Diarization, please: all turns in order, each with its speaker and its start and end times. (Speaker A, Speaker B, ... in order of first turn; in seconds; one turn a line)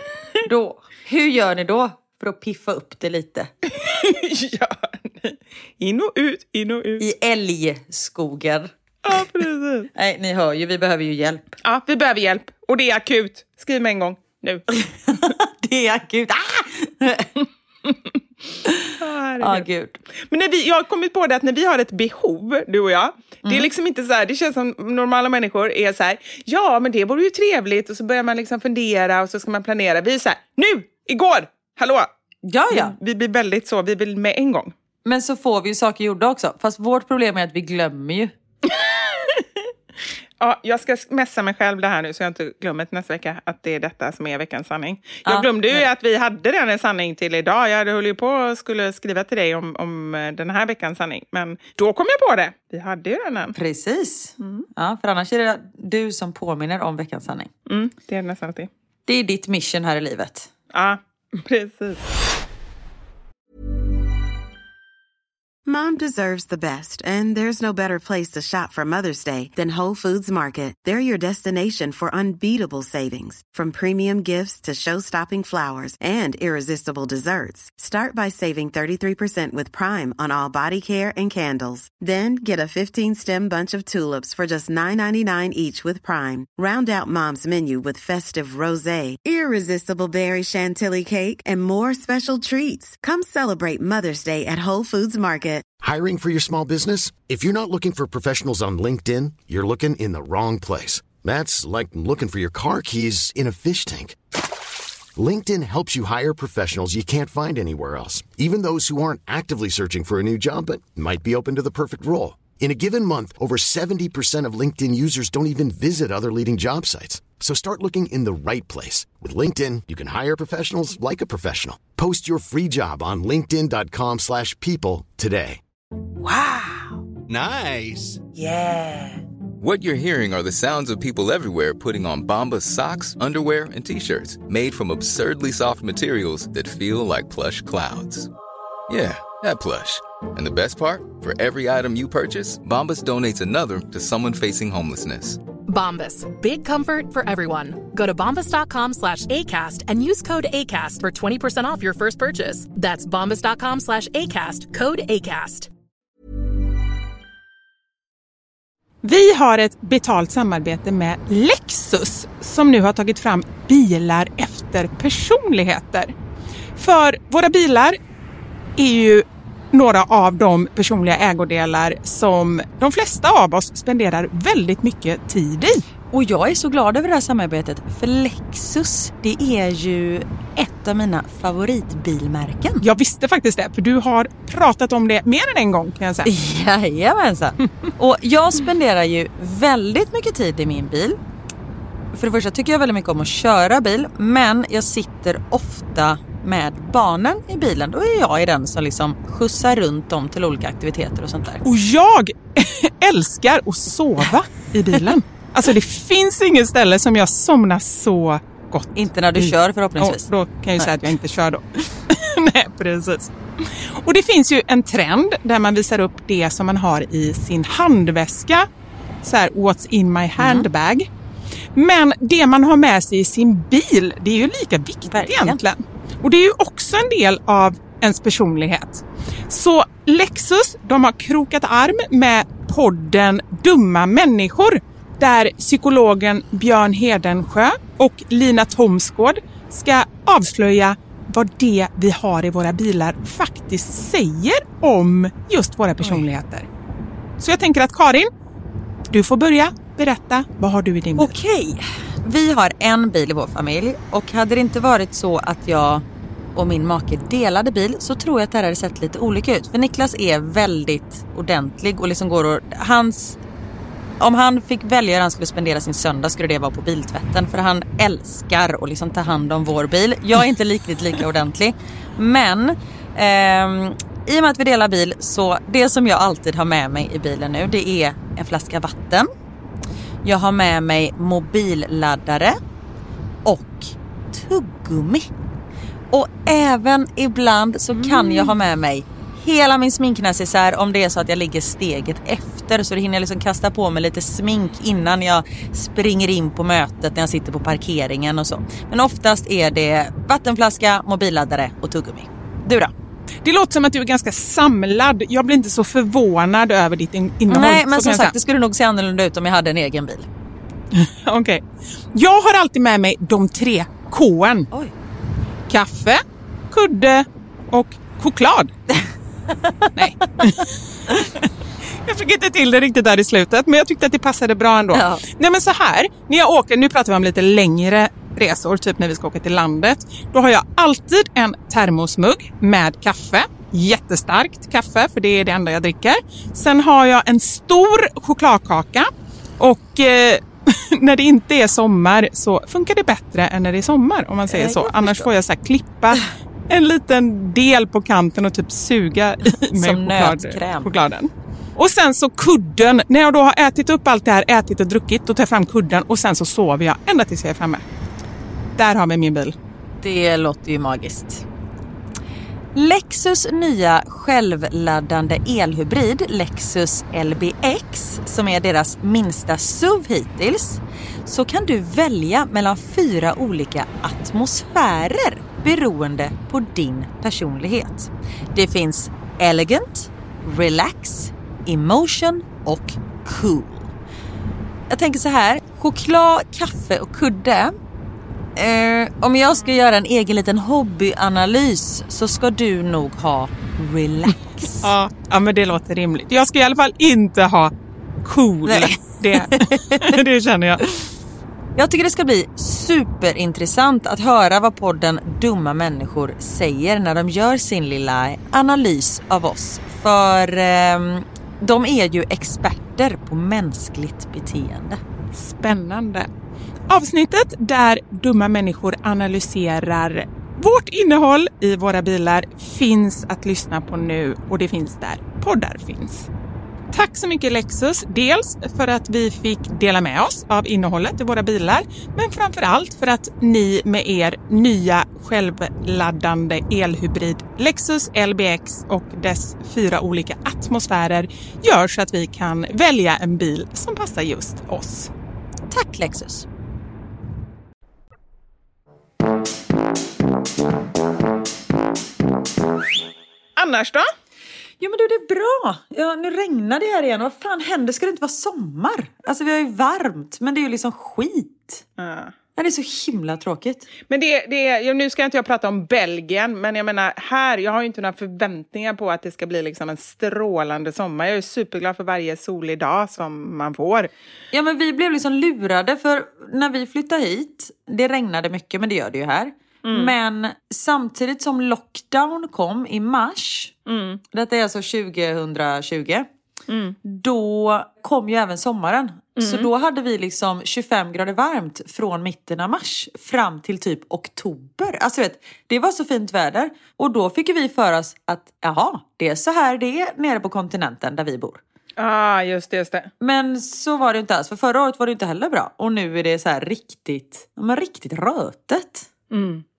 Speaker A: 0.4-3.5
Speaker B: 3.7-7.0
Speaker A: 7.0-8.7
Speaker B: 9.1-9.9
Speaker A: 9.9-11.5
Speaker B: 11.7-15.3
Speaker A: 15.1-17.4
Speaker A: 18.6-20.0
Speaker B: 19.0-19.7
Speaker B: 20.3-32.1
Speaker A: 23.4-23.7
Speaker A: 32.5-32.9
Speaker B: 32.7-34.7
Speaker A: 35.0-38.3
Speaker B: 38.7-39.4
Speaker B: 40.4-53.6
Speaker A: 45.3-45.9
Speaker A: 53.5-57.5
Speaker B: 54.4-54.7
Speaker B: 57.7-58.7
Speaker A: 59.1-60.5
Speaker B: 60.7-62.1
Speaker C: 65.7-95.7
Speaker D: 95.8-104.2
Speaker D: 105.2-125.6
Speaker E: 127.3-128.2
Speaker B: 128.4-129.0
Speaker E: 129.6-138.3
Speaker E: 138.9-145.4
Speaker F: 145.7-155.7
Speaker B: 159.0-166.1
Speaker B: 166.8-168.0
Speaker B: 168.8-175.8
Speaker A: 176.1-182.8
Speaker B: 182.8-186.3
Speaker A: 186.2-191.2
Speaker A: 192.1-201.7
Speaker B: 201.6-218.7
Speaker A: 208.9-210.9
Speaker B: 219.2-221.1
Speaker A: 220.4-220.7
Speaker B: 221.8-246.7
Speaker A: 225.1-225.6
Speaker B: 247.4-248.3
Speaker B: 249.1-251.3
Speaker A: 251.2-256.1
Speaker A: 256.6-263.4
Speaker A: 264.2-279.3
Speaker A: 280.2-282.6
Speaker A: 283.4-285.3
Speaker A: 286.1-302.9
Speaker B: 288.0-288.5
Speaker B: 303.4-308.3
Speaker A: 307.5-310.3
Speaker B: 310.9-314.7
Speaker B: 315.7-318.7
Speaker A: 319.6-320.4
Speaker B: 320.0-321.5
Speaker B: 322.0-357.9
Speaker A: 324.9-325.2
Speaker A: 344.5-345.3
Speaker A: 349.7-350.9
Speaker B: 358.8-359.6
Speaker A: 360.0-361.4
Speaker A: 362.8-383.9
Speaker A: 384.9-387.8
Speaker A: 388.6-394.9
Speaker B: 394.8-397.7
Speaker B: 398.2-401.0
Speaker A: 398.6-400.1
Speaker A: 401.8-415.0
Speaker B: 415.3-416.3
Speaker B: 416.9-426.3
Speaker B: 426.9-445.1
Speaker A: 445.7-446.5
Speaker B: 453.6-454.1
Speaker A: 454.8-461.8
Speaker B: 462.0-462.3
Speaker A: 462.6-463.9
Speaker B: 464.1-474.1
Speaker A: 474.5-483.7
Speaker B: 479.9-480.1
Speaker B: 483.9-484.2
Speaker A: 484.3-486.3
Speaker B: 486.7-487.0
Speaker A: 487.0-501.6
Speaker B: 489.4-489.7
Speaker B: 502.0-503.1
Speaker A: 503.2-509.1
Speaker B: 509.3-509.6